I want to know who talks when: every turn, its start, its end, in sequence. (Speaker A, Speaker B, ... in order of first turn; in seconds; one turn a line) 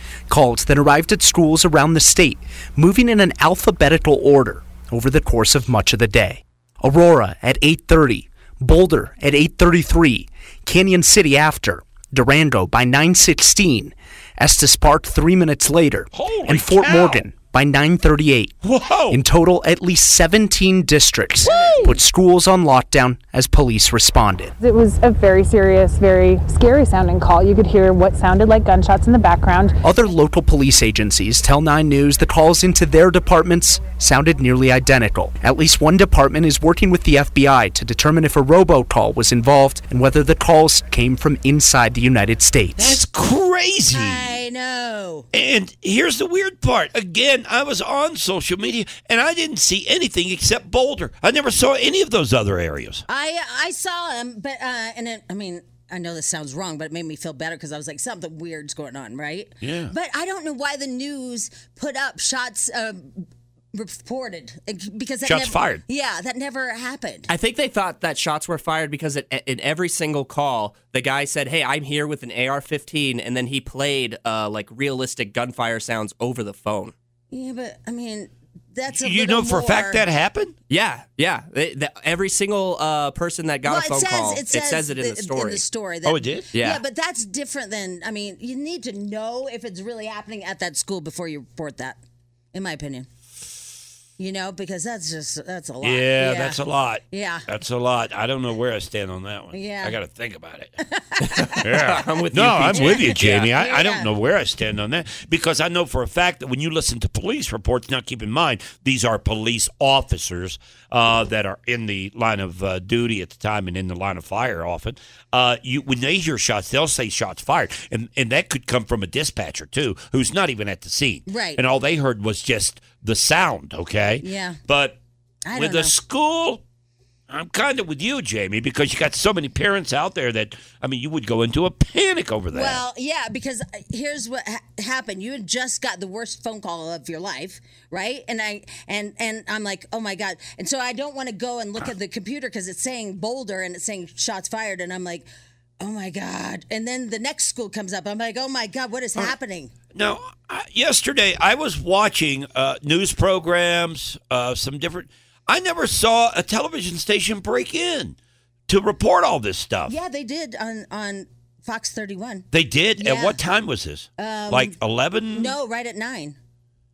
Speaker A: 0.3-18.6
Speaker B: 16.1-17.2
Speaker B: 18.6-19.2
Speaker A: 19.1-24.5
Speaker B: 21.5-21.8
Speaker C: 21.5-21.8
Speaker D: 24.6-29.8
Speaker A: 29.8-43.0
Speaker B: 42.8-44.4
Speaker C: 43.9-45.3
Speaker B: 45.3-53.0
Speaker C: 53.1-67.3
Speaker B: 59.6-59.9
Speaker B: 65.2-65.8
Speaker E: 67.3-76.9
Speaker C: 77.3-80.0
Speaker B: 78.9-80.5
Speaker E: 80.7-85.6
Speaker C: 83.6-92.0
Speaker B: 86.0-86.5
Speaker E: 86.5-86.8
Speaker C: 92.5-93.1
Speaker C: 94.2-96.6
Speaker B: 95.8-100.8
Speaker C: 97.1-97.5
Speaker C: 99.5-100.0
Speaker C: 100.9-101.7
Speaker E: 101.4-103.5
Speaker B: 101.6-125.0
Speaker C: 102.7-104.1
Speaker C: 121.3-121.6
Speaker C: 124.2-124.6
Speaker C: 125.5-126.0
Speaker B: 125.5-126.6
Speaker B: 127.3-132.8
Speaker C: 132.5-145.3
Speaker C: 145.8-149.7
Speaker B: 149.9-158.2
Speaker B: 158.7-159.9
Speaker C: 159.9-162.5
Speaker B: 162.5-165.5
Speaker C: 163.0-163.4
Speaker C: 164.2-164.8
Speaker C: 165.3-166.4